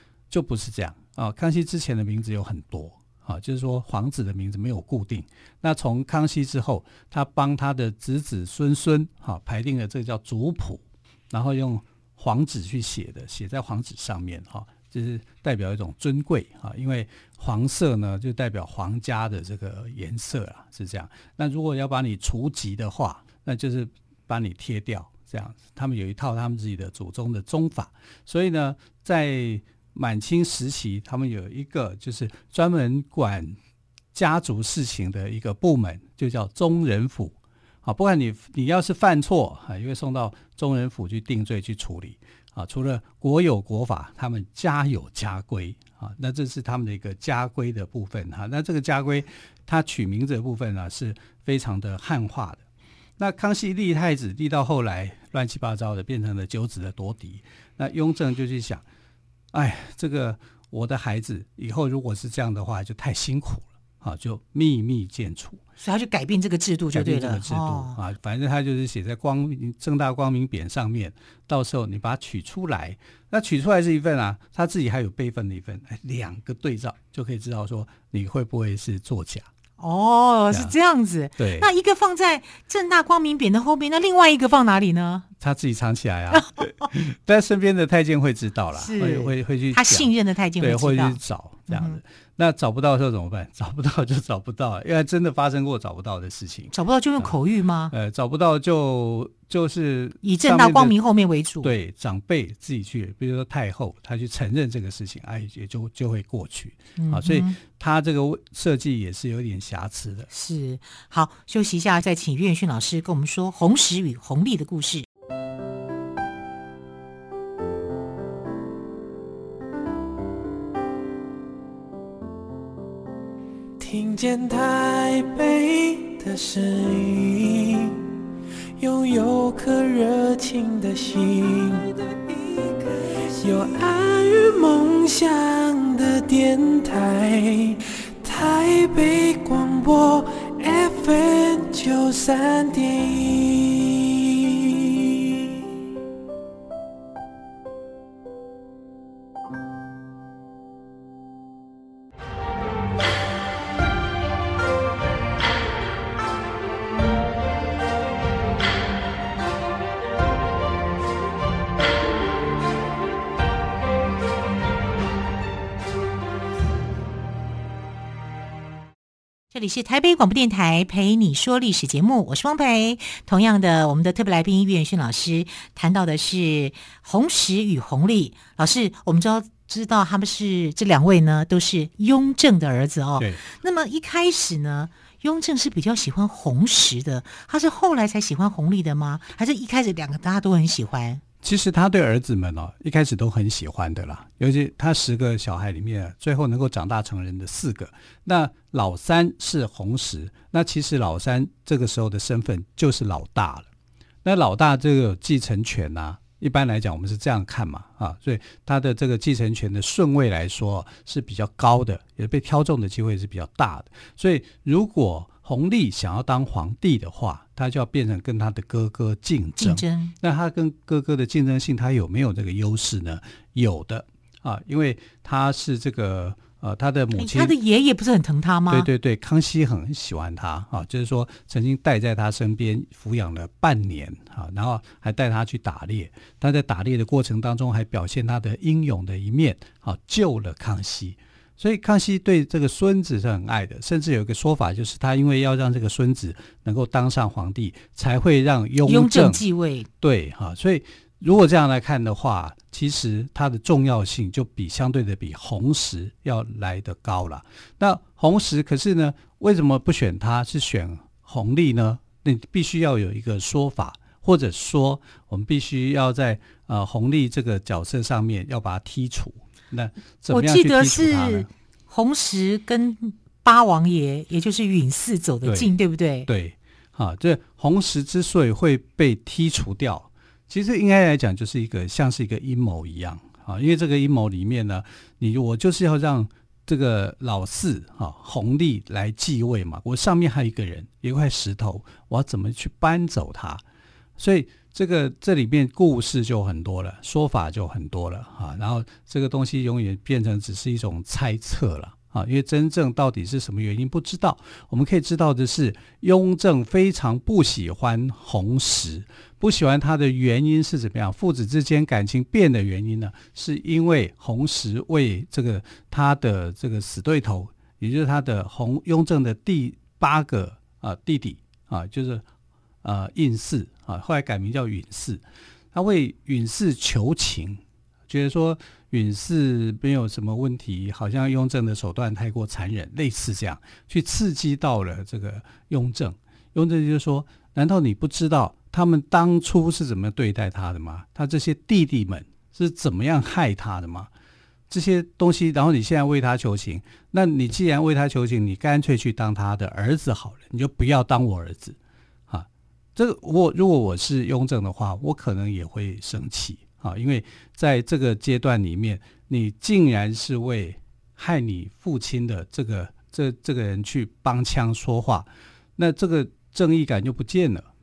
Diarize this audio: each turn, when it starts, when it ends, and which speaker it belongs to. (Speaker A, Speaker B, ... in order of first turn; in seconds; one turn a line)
Speaker A: 0.3-33.6
Speaker A: 34.1-52.6
Speaker A: 53.2-58.8
Speaker A: 59.5-65.6
Speaker B: 65.8-68.0
Speaker A: 66.9-79.5
Speaker B: 79.8-85.3
Speaker A: 81.4-81.7
Speaker A: 85.4-97.3
Speaker B: 88.8-92.0
Speaker B: 96.7-97.9
Speaker A: 97.9-100.9
Speaker B: 100.2-101.7
Speaker A: 101.6-110.3
Speaker B: 107.0-107.6
Speaker B: 110.3-115.1
Speaker C: 123.8-128.0
Speaker C: 128.8-145.5
Speaker B: 169.5-191.2
Speaker A: 183.2-183.4
Speaker A: 191.4-203.7
Speaker A: 204.2-227.6
Speaker B: 219.6-220.1
Speaker B: 227.1-228.9
Speaker A: 228.7-249.4
Speaker B: 248.8-249.9
Speaker A: 250.0-271.5
Speaker B: 270.3-276.3
Speaker A: 275.4-275.7
Speaker A: 276.3-293.6
Speaker A: 294.2-322.2
Speaker A: 322.8-344.1
Speaker A: 344.7-351.8
Speaker A: 352.3-367.7